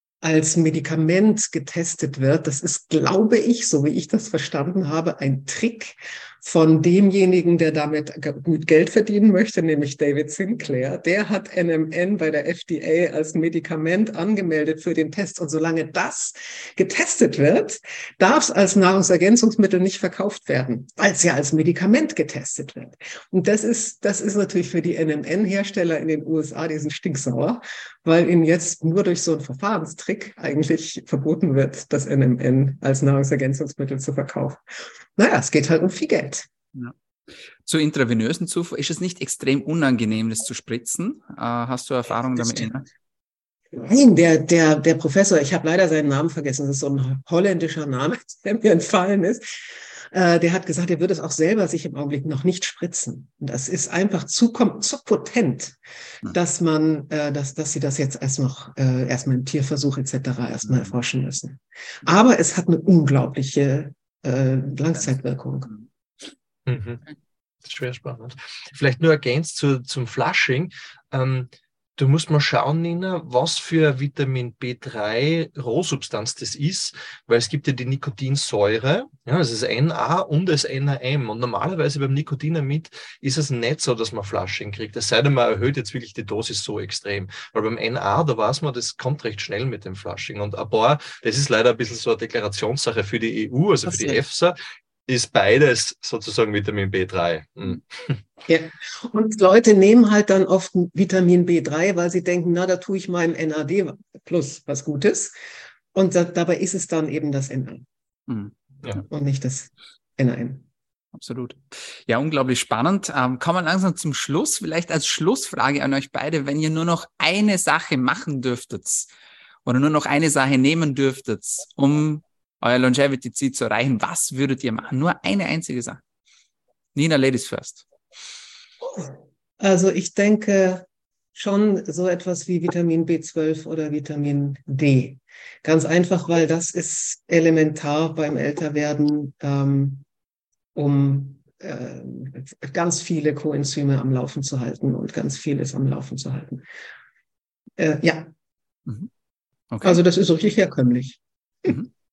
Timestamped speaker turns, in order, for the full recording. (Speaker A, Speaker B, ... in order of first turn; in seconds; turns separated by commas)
Speaker A: 0.2-34.6, Speaker A: 35.2-36.5, Speaker B: 37.6-42.9, Speaker A: 42.3-42.7, Speaker A: 43.7-49.5, Speaker A: 50.1-65.7, Speaker C: 66.7-67.0, Speaker C: 67.6-98.2, Speaker B: 93.9-94.2, Speaker A: 98.5-105.3, Speaker A: 105.9-107.8, Speaker B: 108.3-109.0, Speaker A: 109.1-110.7, Speaker B: 111.1-119.1, Speaker B: 119.7-126.0, Speaker B: 127.0-127.9, Speaker A: 128.8-140.1, Speaker A: 140.8-146.7, Speaker A: 147.8-148.3, Speaker B: 149.7-150.0, Speaker A: 149.8-151.8